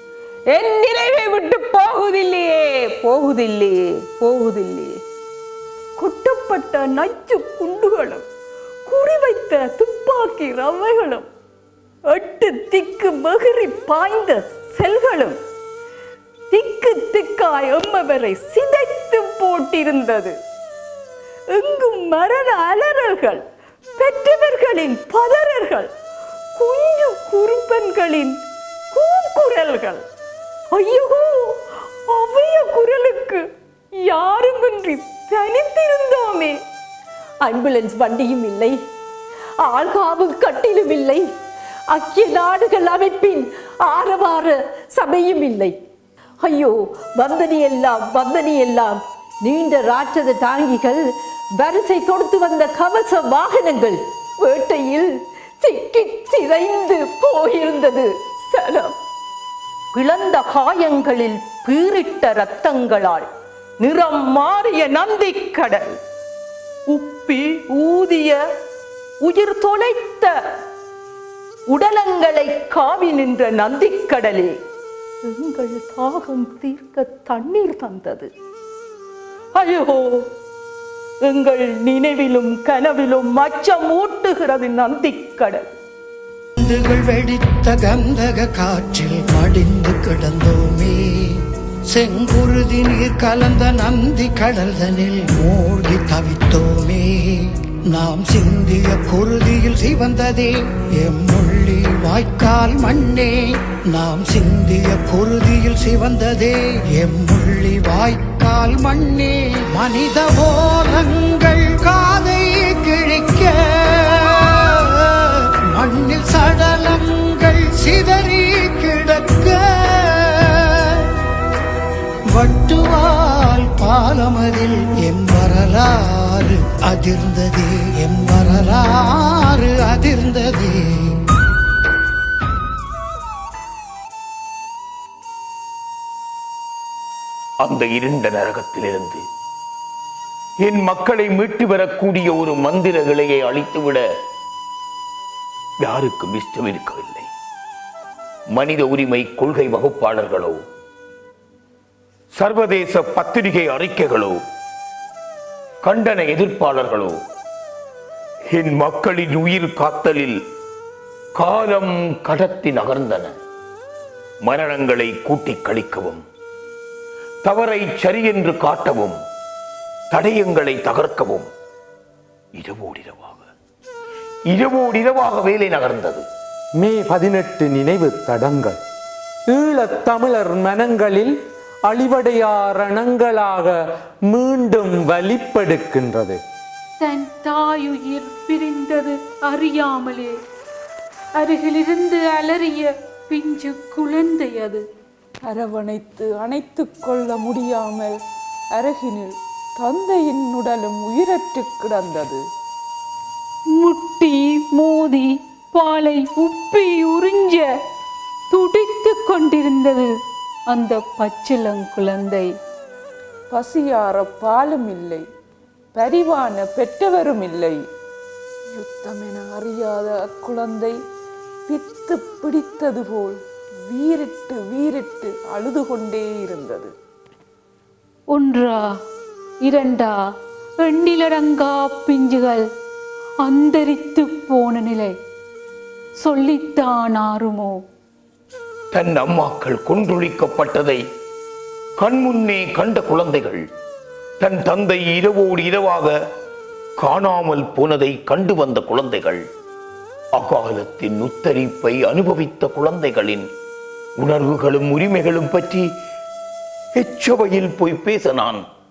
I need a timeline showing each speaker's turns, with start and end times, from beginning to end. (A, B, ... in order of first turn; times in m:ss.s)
0:00.5-0:05.0 A
0:06.0-0:08.2 B
0:08.8-0:11.3 B
0:12.1-0:15.3 B
0:16.5-0:20.3 B
0:21.5-0:23.4 B
0:24.0-0:25.9 B
0:26.6-0:28.4 B
0:28.9-0:30.0 B
0:30.7-0:31.6 B
0:32.1-0:33.4 B
0:34.0-0:36.6 B
0:37.4-0:38.8 C
0:39.6-0:41.3 C
0:41.9-0:45.8 C
0:46.4-0:58.1 C
0:59.9-1:03.3 D
1:03.8-1:06.0 D
1:06.9-1:08.4 D
1:09.2-1:10.3 D
1:11.7-1:14.6 D
1:15.2-1:18.3 D
1:19.5-1:20.3 D
1:21.2-1:25.7 D
1:26.6-1:31.4 E
1:31.9-2:01.1 E
2:02.3-2:11.1 E
2:17.6-2:19.2 F
2:20.6-2:24.0 F
2:25.8-2:27.3 F
2:28.5-2:30.6 F
2:32.4-2:34.4 F
2:35.8-2:37.2 F
2:38.5-2:40.4 F
2:41.4-2:43.3 F
2:44.4-2:46.2 F
2:47.4-2:49.2 F
2:50.1-2:51.5 F
2:52.6-2:53.5 F
2:54.5-2:56.2 F
2:56.8-2:58.8 G
2:59.5-3:01.3 G
3:01.8-3:06.4 G
3:07.0-3:10.3 H
3:11.3-3:14.8 H
3:15.4-3:18.2 I
3:18.7-3:22.4 I
3:23.8-3:27.6 H
3:28.5-3:30.1 H
3:30.7-3:32.5 H
3:33.5-3:35.2 I
3:35.9-3:37.8 I
3:38.7-3:41.0 I
3:41.7-3:46.9 I
3:48.3-3:48.8 H
3:49.6-3:50.2 H
3:50.8-3:52.6 H
3:53.4-3:55.1 H
3:56.2-3:57.8 H
3:58.9-4:01.0 F
4:02.0-4:03.6 F
4:04.4-4:06.1 F
4:07.0-4:09.4 F
4:10.3-4:13.4 F
4:14.2-4:15.8 F
4:17.0-4:18.6 F